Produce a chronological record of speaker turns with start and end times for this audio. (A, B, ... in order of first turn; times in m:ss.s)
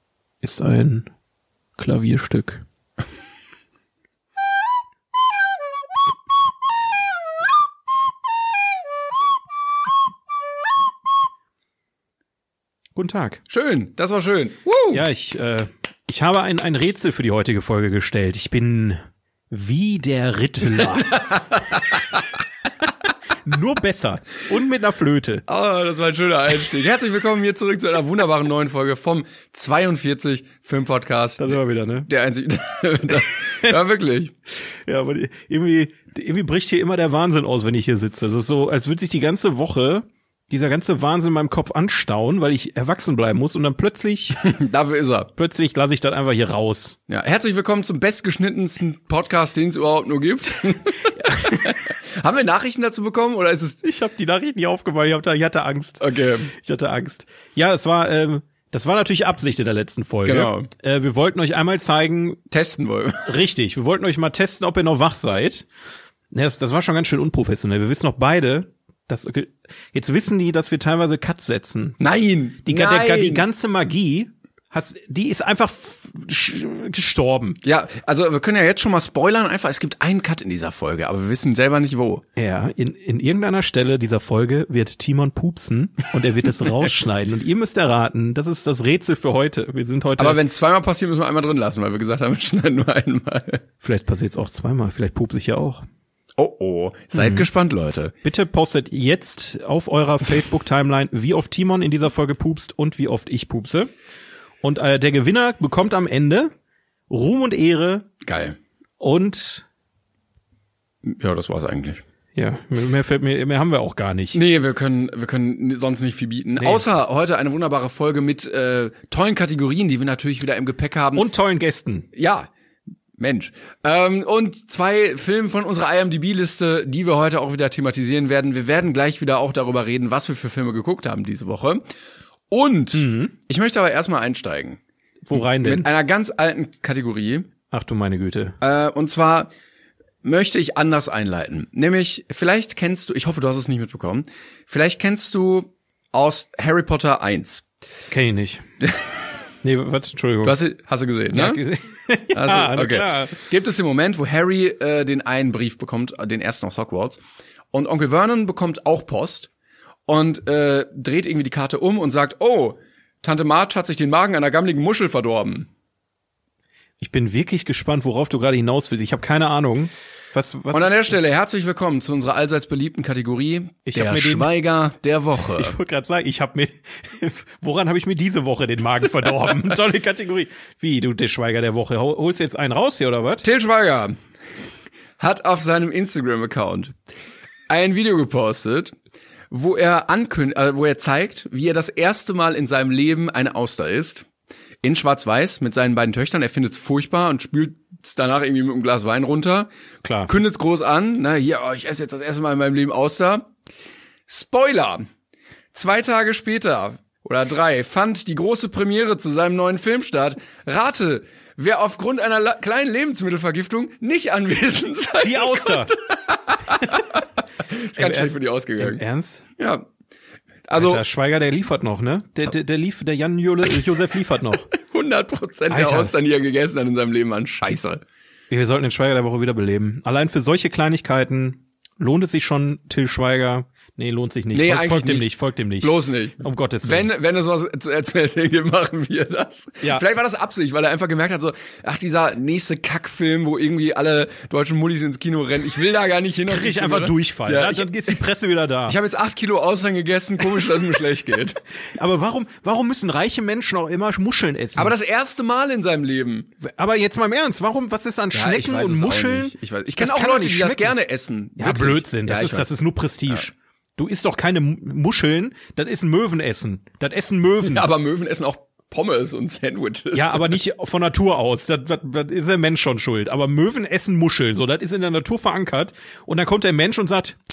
0:00.4-0:01.1 A
0:01.8-0:02.6 A
0:13.0-0:13.4 A
0:13.5-0:15.0 B
0:14.9-0:21.3 A
0:21.1-0:21.8 B
0:23.4-0:25.4 A
0:25.5-0:34.3 B
0:31.4-0:32.1 A
0:34.7-0:44.4 A
0:44.4-0:45.3 B
0:45.4-0:47.0 A
0:47.1-0:53.8 B
0:51.2-0:51.8 A
0:53.8-1:02.4 A
0:56.0-0:56.5 B
1:00.2-1:00.7 B
1:02.5-1:03.3 B
1:03.3-1:05.7 A
1:06.3-1:12.0 A
1:12.0-1:13.4 B
1:12.6-1:17.6 A
1:17.6-1:22.2 B
1:22.4-1:30.4 A
1:30.2-1:33.6 B
1:33.8-1:35.8 A
1:36.4-1:38.1 B
1:37.1-1:37.4 A
1:38.2-1:43.9 A
1:44.6-1:46.5 A
1:47.1-1:48.1 A
1:48.2-1:48.6 B
1:49.0-1:49.6 A
1:51.0-1:52.0 B
1:52.4-1:54.4 A
1:54.3-2:01.2 B
2:01.2-2:02.1 A
2:02.1-2:02.5 B
2:03.2-2:11.8 B
2:12.5-2:14.8 B
2:12.9-2:13.3 A
2:15.2-2:15.9 A
2:15.3-2:17.5 B
2:17.7-2:18.5 A
2:18.6-2:19.5 B
2:20.2-2:27.6 B
2:28.1-2:28.6 A
2:28.8-2:29.1 B
2:29.6-2:30.6 A
2:30.4-2:31.6 B
2:31.3-2:33.4 A
2:32.3-2:37.2 B
2:37.7-2:39.5 B
2:40.1-2:45.7 B
2:47.0-2:51.2 A
2:50.7-2:55.7 B
2:53.8-2:54.5 A
2:55.6-3:03.4 A
3:03.4-3:04.2 B
3:05.2-3:06.9 B
3:07.7-3:08.9 B
3:09.5-3:14.2 B
3:14.8-3:19.7 B
3:20.0-3:20.3 A
3:20.3-3:23.5 B
3:24.3-3:25.1 B
3:25.7-3:39.0 B
3:35.2-3:35.9 A
3:38.0-3:39.4 A
3:39.6-3:39.9 B
3:40.7-3:41.0 B
3:40.8-3:44.7 A
3:44.7-3:48.0 B
3:45.7-3:46.1 A
3:48.5-3:57.1 A
3:54.5-3:55.3 B
3:55.8-4:08.1 B
4:06.5-4:09.0 A
4:08.9-4:11.6 B
4:11.9-4:14.9 A
4:14.8-4:16.5 B
4:16.6-4:20.9 A
4:18.3-4:22.7 B
4:21.6-4:27.9 A
4:27.6-4:30.5 B
4:30.1-4:37.4 A